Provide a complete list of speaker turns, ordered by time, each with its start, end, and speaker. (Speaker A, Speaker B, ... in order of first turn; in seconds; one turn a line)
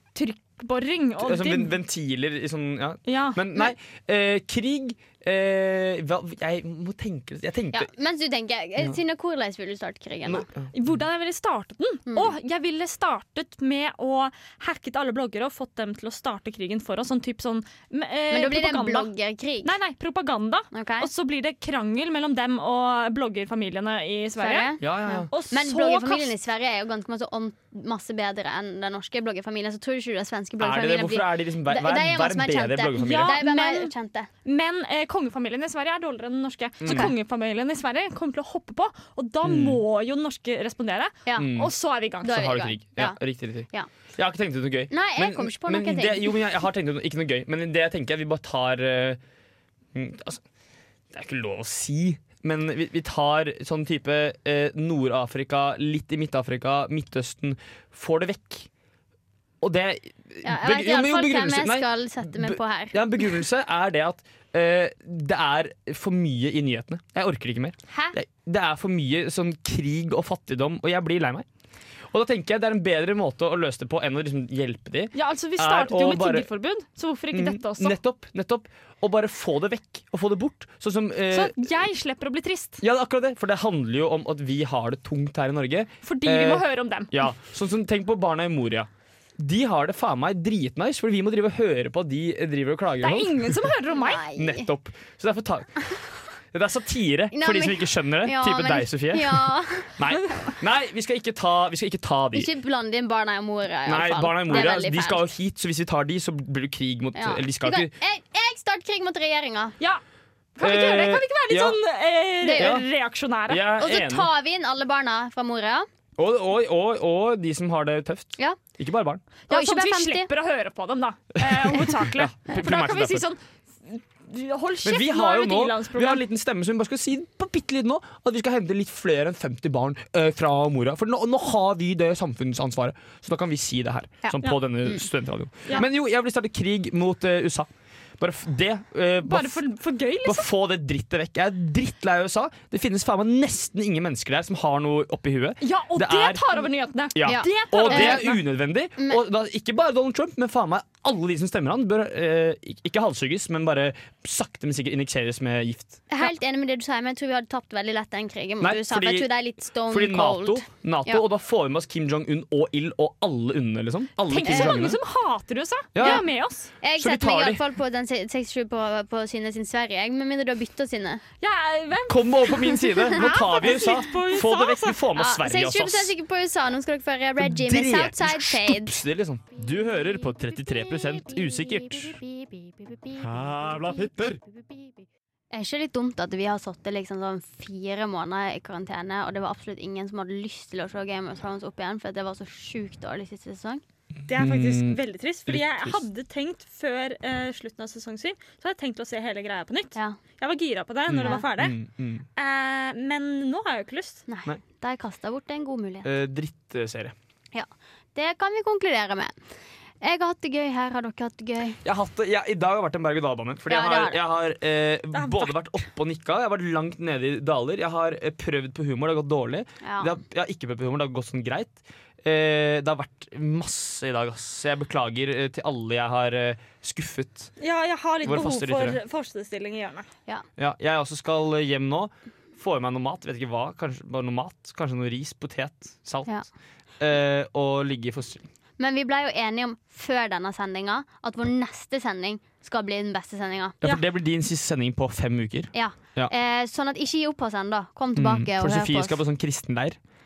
Speaker A: 0.1-1.8
Speaker B: 1.2-7.9
Speaker A: 3.1-3.6
Speaker C: 7.7-10.5
Speaker B: 10.2-11.0
Speaker A: 10.7-19.1
Speaker C: 12.1-12.3
Speaker C: 18.3-19.7
Speaker A: 19.6-24.7
Speaker C: 20.7-21.1
Speaker C: 24.4-34.3
Speaker B: 24.8-25.3
Speaker A: 25.3-26.3
Speaker B: 30.6-33.4
Speaker A: 33.0-42.5
Speaker B: 36.8-37.1
Speaker C: 36.9-37.1
Speaker B: 39.4-39.8
Speaker B: 41.4-41.7
Speaker C: 42.2-43.9
Speaker B: 42.2-49.2
Speaker C: 44.9-46.4
Speaker B: 49.9-50.4
Speaker B: 51.1-58.7
Speaker B: 59.6-71.5
Speaker C: 60.4-63.0
Speaker C: 67.9-68.2
Speaker B: 72.1-76.5
Speaker A: 75.1-78.0
Speaker B: 77.3-81.7
Speaker A: 81.3-82.8
Speaker B: 82.8-93.7
Speaker A: 86.0-87.3
Speaker A: 93.0-94.3
Speaker C: 93.9-94.7
Speaker B: 94.3-96.0
Speaker B: 96.5-102.5
Speaker C: 97.3-100.0
Speaker A: 100.2-100.5
Speaker C: 102.3-105.3
Speaker B: 103.9-107.9
Speaker C: 107.2-109.8
Speaker A: 110.6-113.6
Speaker B: 110.6-111.8
Speaker C: 112.4-112.8
Speaker B: 112.6-112.9
Speaker B: 113.5-114.3
Speaker C: 113.8-115.9
Speaker B: 116.2-119.2
Speaker C: 119.5-120.3
Speaker A: 119.5-126.2
Speaker B: 121.4-123.3
Speaker B: 124.8-139.6
Speaker C: 134.2-135.0
Speaker A: 139.2-140.5
Speaker B: 140.2-146.5
Speaker A: 145.6-148.4
Speaker B: 147.2-156.0
Speaker C: 147.2-148.4
Speaker C: 149.0-149.2
Speaker C: 156.1-161.2
Speaker B: 158.6-159.3
Speaker B: 159.9-165.0
Speaker A: 164.3-166.7
Speaker C: 164.4-164.9
Speaker B: 165.9-166.2
Speaker C: 166.0-166.2
Speaker C: 166.8-171.2
Speaker B: 167.0-167.6
Speaker A: 171.4-175.0
Speaker B: 172.1-176.1
Speaker C: 175.2-179.0
Speaker B: 177.4-182.2
Speaker C: 182.2-183.2
Speaker B: 183.2-184.4
Speaker C: 185.5-193.8
Speaker A: 194.3-201.8
Speaker B: 194.3-196.0
Speaker B: 201.1-202.3
Speaker A: 202.4-204.2
Speaker C: 204.3-206.1
Speaker B: 206.0-207.1
Speaker C: 207.5-209.4
Speaker C: 210.0-211.8
Speaker B: 211.8-227.5
Speaker C: 213.7-214.2
Speaker A: 215.1-215.6
Speaker C: 219.8-220.1
Speaker A: 227.6-230.1
Speaker B: 228.2-229.0
Speaker B: 230.6-236.4
Speaker B: 237.0-238.5
Speaker C: 238.8-243.8
Speaker B: 243.8-246.3
Speaker C: 245.7-249.2
Speaker B: 248.2-250.0